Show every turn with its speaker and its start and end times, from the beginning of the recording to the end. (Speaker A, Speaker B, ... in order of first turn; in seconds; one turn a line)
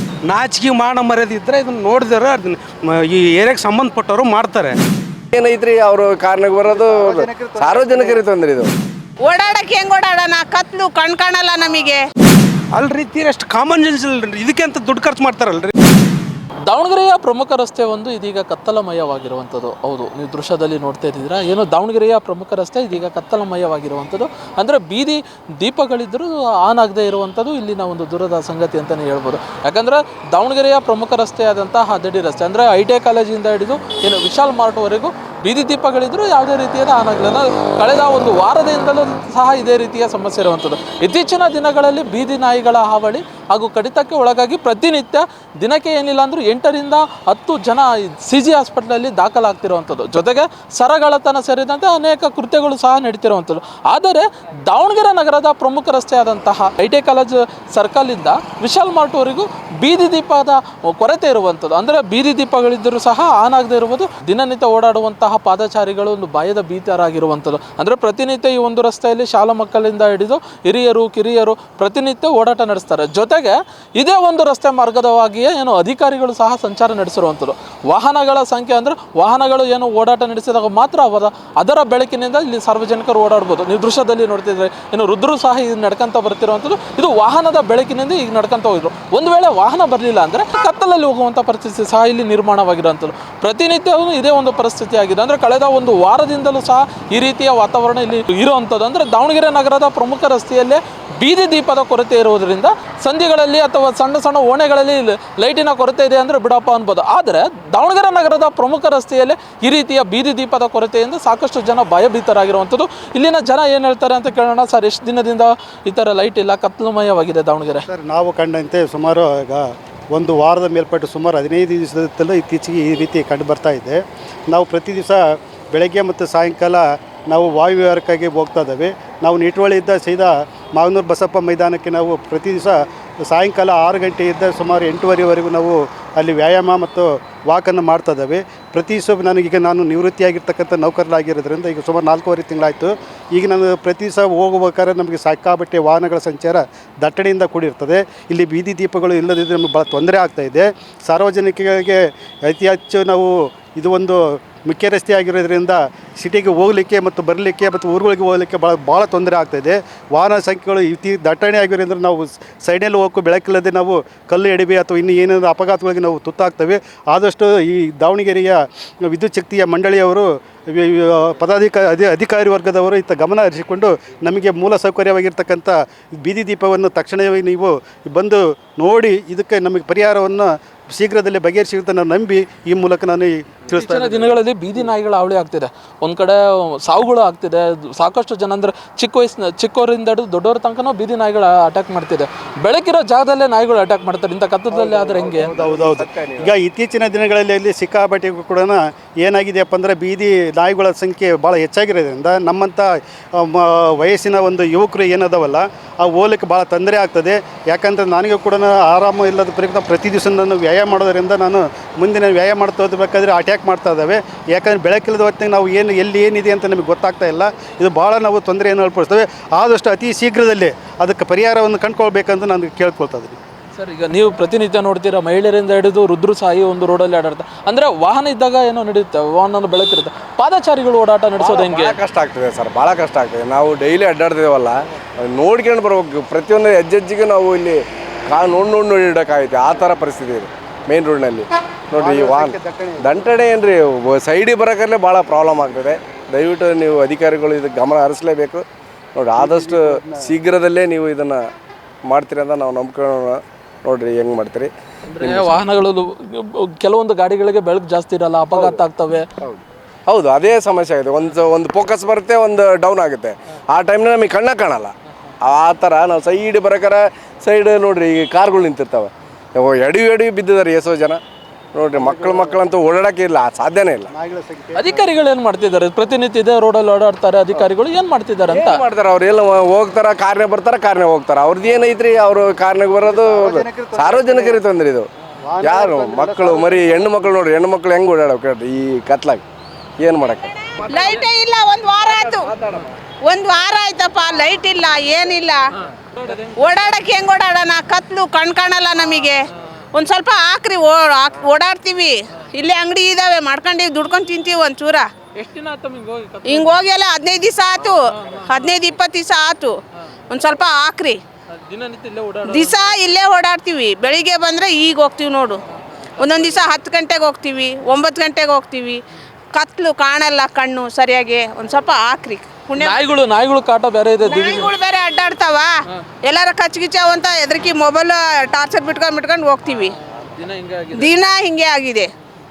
Speaker A: 0.3-4.8
Speaker B: 5.3-8.7
Speaker C: 6.6-8.2
Speaker D: 9.2-12.0
Speaker A: 12.7-15.7
Speaker E: 16.6-117.8
Speaker C: 117.8-184.4
Speaker E: 183.7-195.5
Speaker B: 194.7-196.5
Speaker C: 195.5-223.4
Speaker E: 223.7-232.0
Speaker B: 231.4-248.6
Speaker C: 241.9-243.3
Speaker B: 249.2-251.4
Speaker C: 249.3-250.3
Speaker B: 252.1-255.6
Speaker E: 255.1-259.3
Speaker B: 258.5-258.8
Speaker B: 259.4-271.2
Speaker B: 271.7-274.1
Speaker C: 271.9-272.7
Speaker C: 274.1-275.1
Speaker E: 274.8-278.8
Speaker B: 278.5-285.1
Speaker C: 283.0-284.6
Speaker C: 285.4-287.2
Speaker B: 285.6-289.4
Speaker B: 290.0-290.5
Speaker D: 290.8-292.5
Speaker B: 292.4-292.9
Speaker D: 293.2-295.6
Speaker E: 296.0-297.0
Speaker D: 296.6-299.4
Speaker D: 299.9-305.1
Speaker E: 305.4-306.8
Speaker D: 306.5-309.8
Speaker E: 308.1-308.7
Speaker D: 310.3-311.2
Speaker E: 311.5-312.9
Speaker D: 312.5-315.6
Speaker D: 316.2-319.0
Speaker E: 316.2-316.5
Speaker D: 319.5-323.0
Speaker E: 322.8-324.7
Speaker D: 324.2-325.7
Speaker D: 326.2-329.9
Speaker E: 330.1-331.1
Speaker D: 330.9-332.1